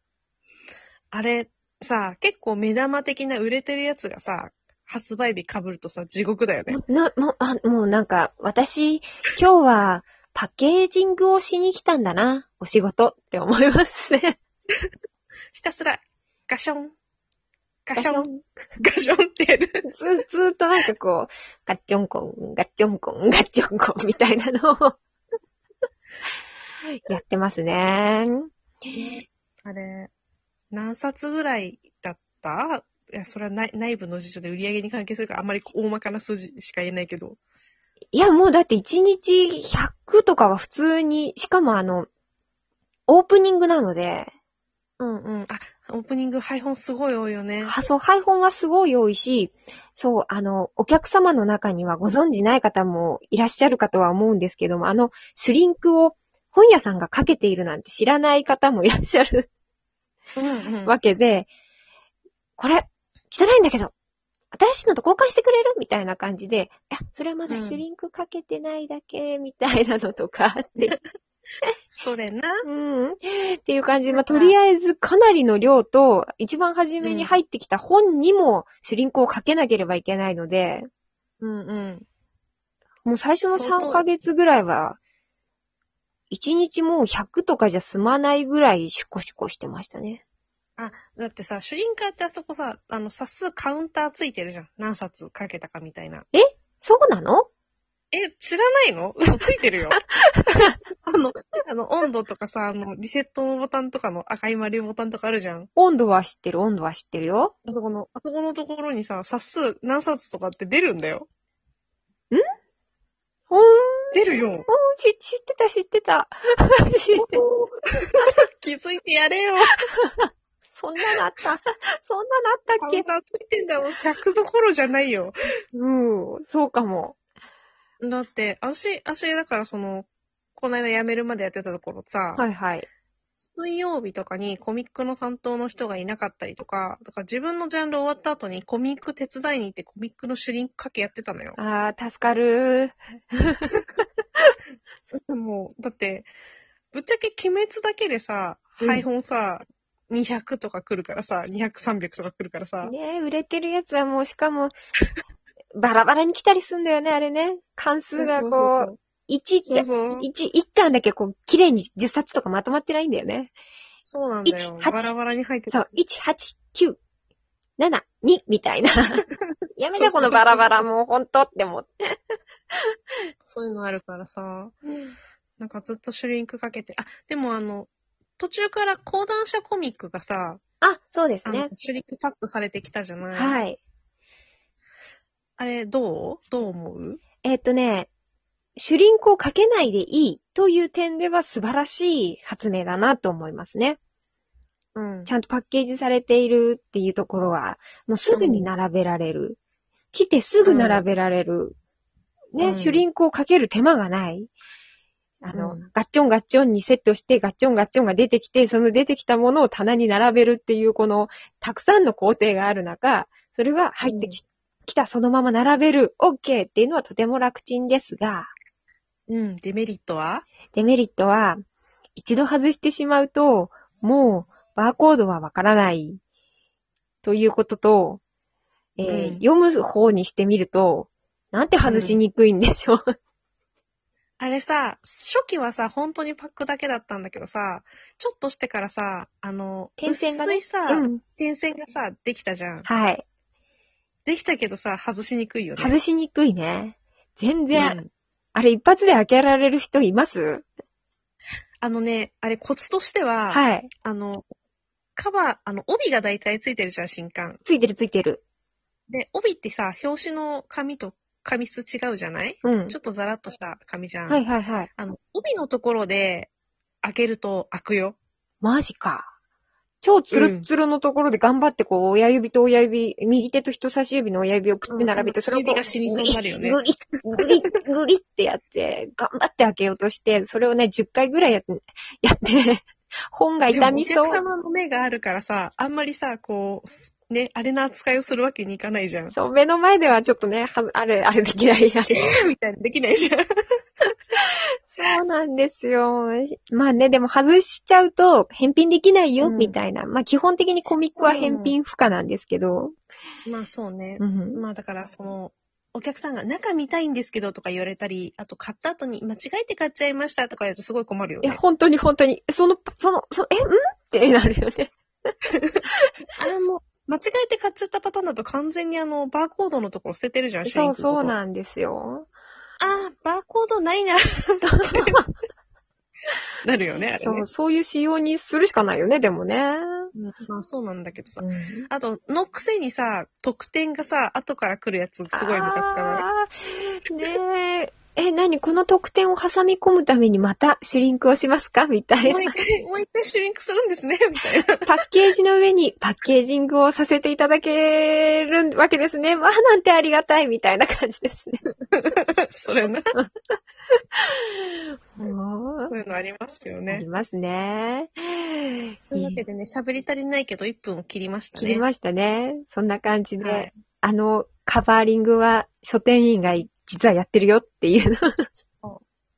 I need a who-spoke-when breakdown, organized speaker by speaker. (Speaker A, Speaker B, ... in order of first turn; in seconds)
Speaker A: 1.1-6.8, 15.5-16.9, 17.9-19.9, 28.9-30.1, 30.7-37.4, 45.0-47.7, 60.3-61.0, 67.5-67.8, 72.0-72.5, 74.1-74.5, 77.0-77.3, 81.4-82.0, 83.5-84.0, 90.8-96.3, 98.1-100.0, 101.1-105.7, 107.6-111.3, 114.1-114.7, 117.1-119.7, 122.8-125.3, 128.0-132.4, 133.4-141.6, 145.3-146.3, 146.9-152.9, 158.2-159.0, 159.7-160.3, 164.1-165.8, 169.4-170.9, 173.4-174.8, 175.6-180.6, 181.4-183.6, 185.6-187.2, 194.9-195.3, 198.3-198.7, 200.6-201.0, 202.6-203.0, 205.5-205.8, 214.0-214.4, 219.3-220.4, 229.0-229.4, 231.8-232.2, 234.4-242.9, 244.2-246.0, 247.7-248.1, 251.8-254.4, 255.2-257.6, 259.1-264.4, 265.0-266.5, 267.0-268.2, 270.3-270.7, 274.9-276.8, 277.4-277.6, 283.7-289.3, 292.1-293.4, 299.4-299.8, 301.2-301.8, 303.4-311.6, 315.5-315.8, 316.4-321.4, 322.8-325.2, 326.6-327.5, 330.1-336.3, 342.2-344.9, 351.9-353.1, 355.8-357.1, 359.1-361.8, 363.4-363.7, 368.7-369.0
Speaker B: 6.7-14.3, 17.9-18.4, 19.9-25.0, 26.9-28.5, 38.1-42.1, 43.1-44.3, 47.6-59.5, 60.8-61.5, 62.6-63.9, 64.5-71.0, 72.6-80.9, 83.0-85.0, 86.3-90.2, 96.3-97.5, 100.1-100.8, 105.8-107.5, 113.5-114.1, 114.7-117.4, 119.9-123.0, 125.7-127.2, 132.4-132.9, 141.6-143.7, 148.8-149.1, 152.8-154.7, 155.7-163.5, 164.4-165.1, 165.7-167.0, 167.8-169.2, 169.8-172.9, 180.8-181.7, 183.3-183.8, 187.4-188.1, 188.8-194.0, 195.2-199.6, 200.1-201.8, 202.5-204.5, 205.4-218.5, 220.7-221.6, 222.2-226.2, 227.2-228.2, 229.0-233.0, 240.0-241.2, 242.8-243.2, 245.8-248.0, 248.5-250.7, 253.5-253.9, 257.6-258.4, 262.6-262.9, 264.3-264.9, 268.6-269.3, 270.0-284.4, 289.3-292.3, 294.4-302.9, 304.2-304.6, 311.4-314.9, 320.6-322.3, 324.6-325.3, 327.2-330.1, 331.4-331.9, 335.3-342.5, 344.9-351.6, 353.9-355.9, 356.9-359.4, 361.6-368.5